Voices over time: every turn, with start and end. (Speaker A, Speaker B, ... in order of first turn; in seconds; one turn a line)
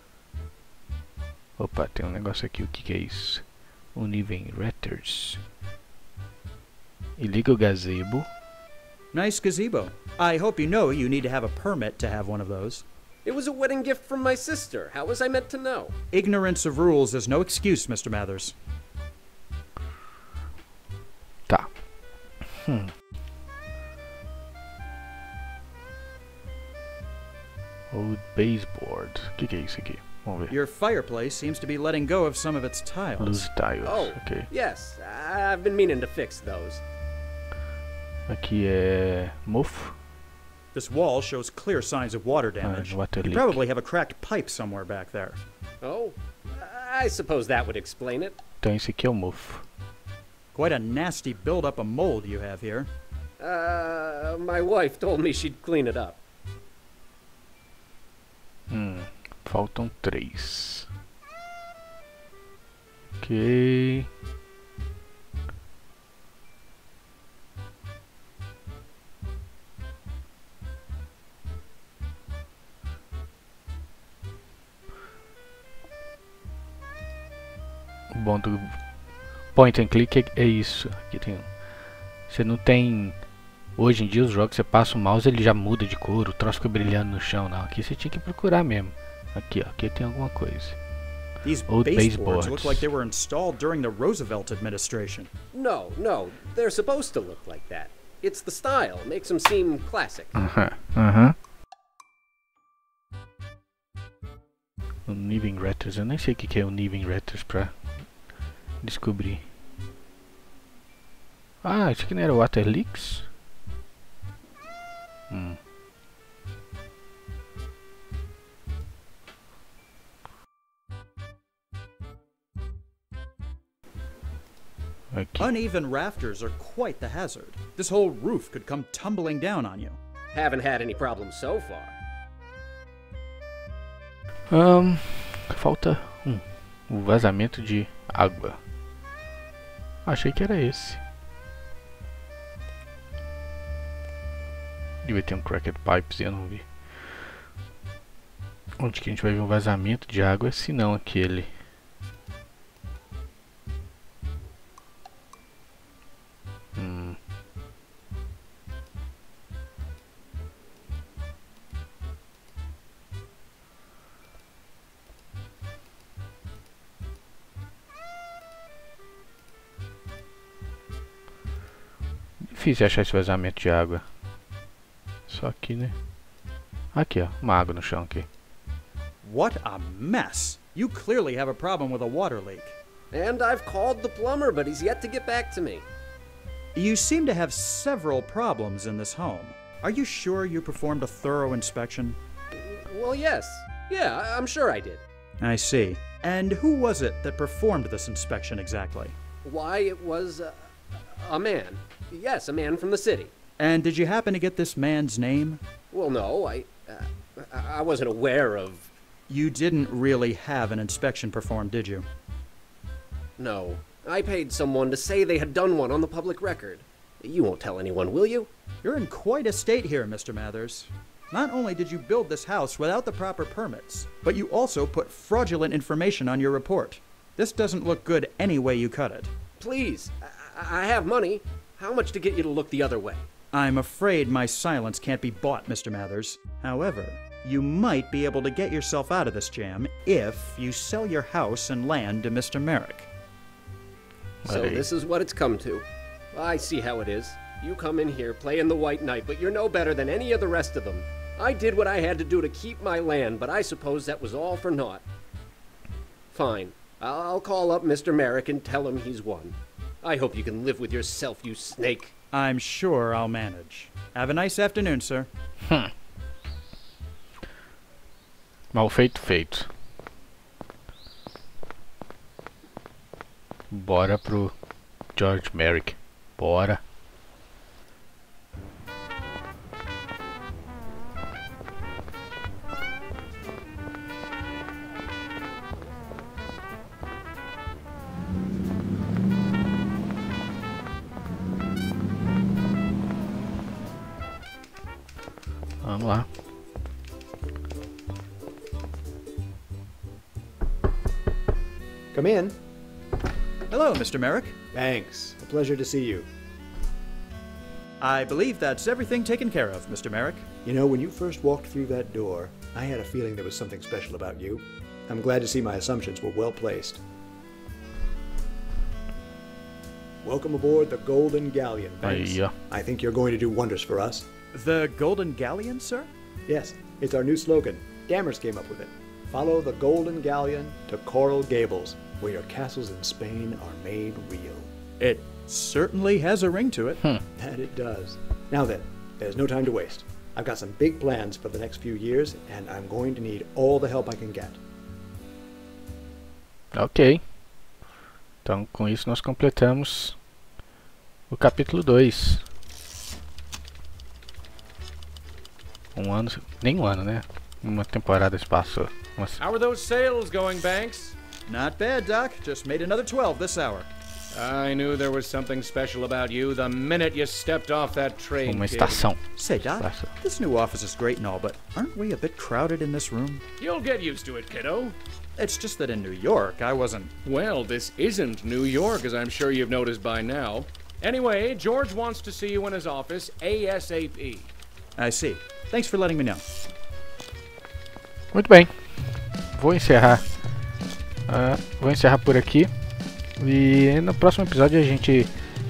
Speaker A: 1.6-5.4
Speaker A: 7.2-8.3
Speaker B: 9.1-12.8
Speaker C: 13.2-15.9
Speaker B: 16.1-18.6
Speaker A: 21.5-21.7
Speaker A: 22.4-22.9
Speaker A: 27.9-30.5
Speaker B: 30.5-33.5
Speaker A: 33.2-34.5
Speaker C: 33.8-36.8
Speaker A: 38.3-40.0
Speaker B: 40.7-45.4
Speaker A: 42.6-43.6
Speaker C: 45.8-48.4
Speaker A: 48.6-49.7
Speaker B: 50.5-52.9
Speaker C: 53.4-56.2
Speaker A: 58.7-60.9
Speaker A: 63.2-64.1
Speaker A: 78.1-78.9
Speaker A: 79.5-81.5
Speaker A: 82.3-83.2
Speaker A: 83.8-90.8
Speaker B: 91.4-95.3
Speaker A: 91.7-92.9
Speaker C: 95.5-100.3
Speaker A: 100.3-101.4
Speaker A: 105.1-107.8
Speaker A: 108.8-109.5
Speaker A: 111.6-113.3
Speaker A: 115.3-115.6
Speaker A: 125.1-125.5
Speaker B: 125.4-130.0
Speaker C: 130.3-132.0
Speaker A: 134.5-138.6
Speaker A: 140.1-141.0
Speaker A: 145.0-147.4
Speaker A: 148.8-151.5
Speaker A: 156.8-157.2
Speaker A: 172.4-174.1
Speaker A: 175.3-176.0
Speaker A: 176.9-178.3
Speaker B: 179.2-182.8
Speaker C: 183.1-185.9
Speaker B: 186.8-192.2
Speaker C: 192.5-195.1
Speaker B: 195.4-199.2
Speaker C: 199.4-203.3
Speaker B: 203.6-205.6
Speaker C: 205.9-208.9
Speaker B: 209.3-212.1
Speaker C: 213.4-218.5
Speaker B: 218.8-229.3
Speaker C: 229.6-233.3
Speaker B: 233.5-243.1
Speaker A: 244.4-244.8
Speaker C: 244.5-255.1
Speaker C: 256.3-262.1
Speaker B: 262.3-265.3
Speaker A: 265.6-265.9
Speaker A: 268.7-269.7
Speaker A: 273.7-274.6
Speaker A: 275.1-276.8
Speaker A: 295.8-296.3
Speaker D: 302.1-302.6
Speaker B: 303.7-304.6
Speaker D: 304.7-306.3
Speaker B: 308.0-310.5
Speaker D: 310.6-317.0
Speaker D: 320.2-324.3
Speaker A: 322.0-322.6
Speaker B: 324.5-326.1
Speaker D: 326.5-334.7
Speaker B: 335.0-337.1
Speaker D: 337.4-344.6
Speaker A: 346.7-347.2
Speaker A: 348.4-350.2
Speaker A: 351.3-352.4
Speaker A: 355.9-359.4
Speaker E: 359.4-361.2
Speaker B: 361.5-363.9
Speaker E: 364.3-369.1
Speaker A: 368.4-370.1
Speaker B: 369.4-373.4
Speaker E: 373.6-375.0
Speaker B: 375.4-377.1
Speaker E: 377.2-384.5
Speaker B: 385.0-386.4
Speaker A: 388.3-390.3
Speaker A: 391.3-392.7
Speaker A: 393.4-395.3